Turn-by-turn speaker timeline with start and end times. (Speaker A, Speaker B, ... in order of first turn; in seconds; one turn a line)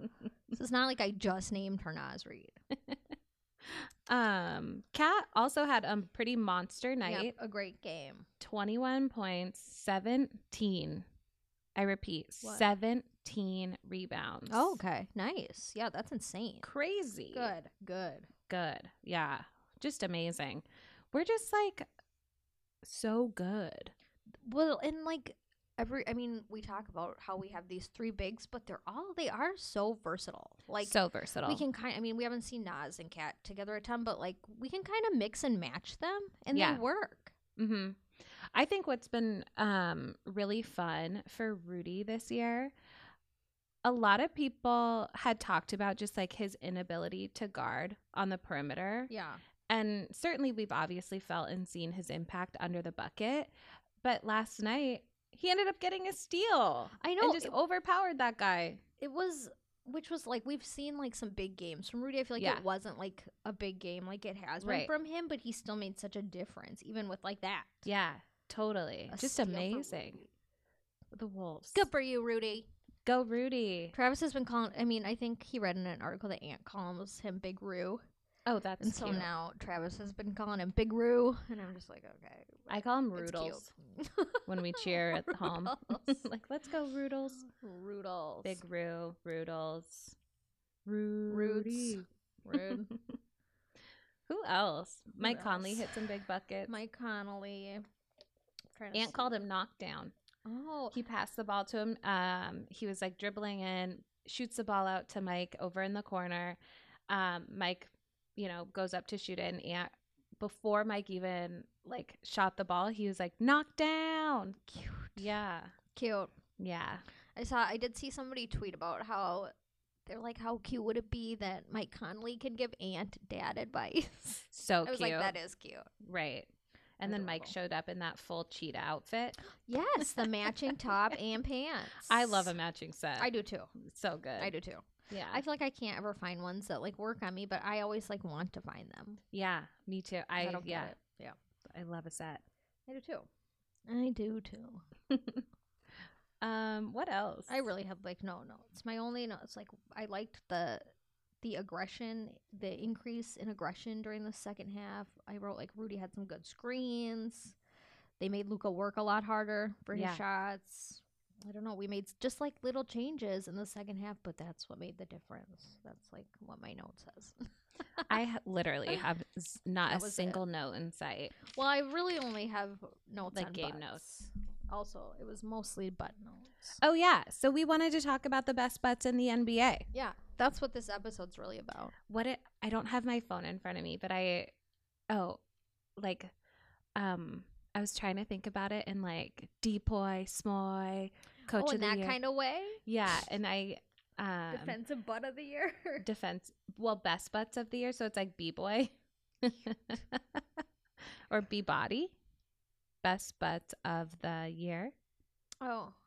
Speaker A: 0.5-2.6
Speaker B: 3.6-7.3
Speaker A: 7.0-8.3
Speaker B: 8.4-11.1
Speaker B: 11.8-14.8
Speaker A: 14.5-16.7
Speaker B: 16.6-17.5
Speaker A: 17.3-18.3
Speaker B: 18.5-21.9
Speaker B: 22.8-23.9
Speaker A: 24.4-37.3
Speaker B: 30.8-31.6
Speaker B: 36.5-36.8
Speaker B: 37.6-42.7
Speaker B: 43.8-49.1
Speaker A: 49.1-49.4
Speaker B: 49.7-58.8
Speaker A: 57.0-57.6
Speaker A: 59.0-67.9
Speaker B: 62.4-62.6
Speaker B: 64.6-64.9
Speaker B: 67.9-70.2
Speaker A: 69.1-70.3
Speaker B: 71.1-71.9
Speaker A: 71.7-72.7
Speaker B: 73.0-73.9
Speaker A: 73.9-78.0
Speaker B: 78.5-79.3
Speaker A: 78.8-86.2
Speaker B: 82.7-83.7
Speaker B: 84.5-87.4
Speaker A: 87.4-88.6
Speaker B: 88.4-90.2
Speaker B: 90.9-93.2
Speaker A: 91.3-92.9
Speaker B: 94.3-96.7
Speaker A: 95.2-95.9
Speaker A: 96.7-97.8
Speaker A: 98.8-99.4
Speaker B: 98.9-100.1
Speaker A: 100.5-101.0
Speaker B: 100.9-114.6
Speaker A: 114.7-115.3
Speaker B: 115.2-115.8
Speaker A: 115.9-116.3
Speaker B: 116.6-117.0
Speaker A: 117.4-119.5
Speaker A: 120.1-125.9
Speaker B: 124.5-125.4
Speaker B: 126.0-129.4
Speaker A: 127.0-127.5
Speaker A: 129.5-132.5
Speaker B: 130.0-130.3
Speaker B: 132.1-134.6
Speaker A: 133.2-133.7
Speaker A: 134.4-139.2
Speaker B: 135.1-135.4
Speaker B: 139.3-140.9
Speaker A: 140.4-141.4
Speaker B: 141.7-142.4
Speaker A: 142.9-143.3
Speaker A: 143.9-144.8
Speaker B: 145.1-145.4
Speaker B: 146.4-147.6
Speaker A: 147.5-150.9
Speaker A: 151.4-157.6
Speaker A: 158.2-168.1
Speaker B: 159.9-160.2
Speaker B: 168.1-171.4
Speaker A: 169.9-170.4
Speaker A: 171.4-176.8
Speaker B: 173.3-174.0
Speaker B: 176.8-179.9
Speaker A: 179.9-181.9
Speaker B: 182.1-184.5
Speaker B: 185.1-185.4
Speaker B: 186.0-186.3
Speaker B: 186.9-192.2
Speaker A: 191.5-192.8
Speaker B: 192.9-194.8
Speaker A: 194.5-196.1
Speaker B: 196.0-200.4
Speaker B: 201.3-202.2
Speaker B: 203.0-204.9
Speaker A: 205.6-206.0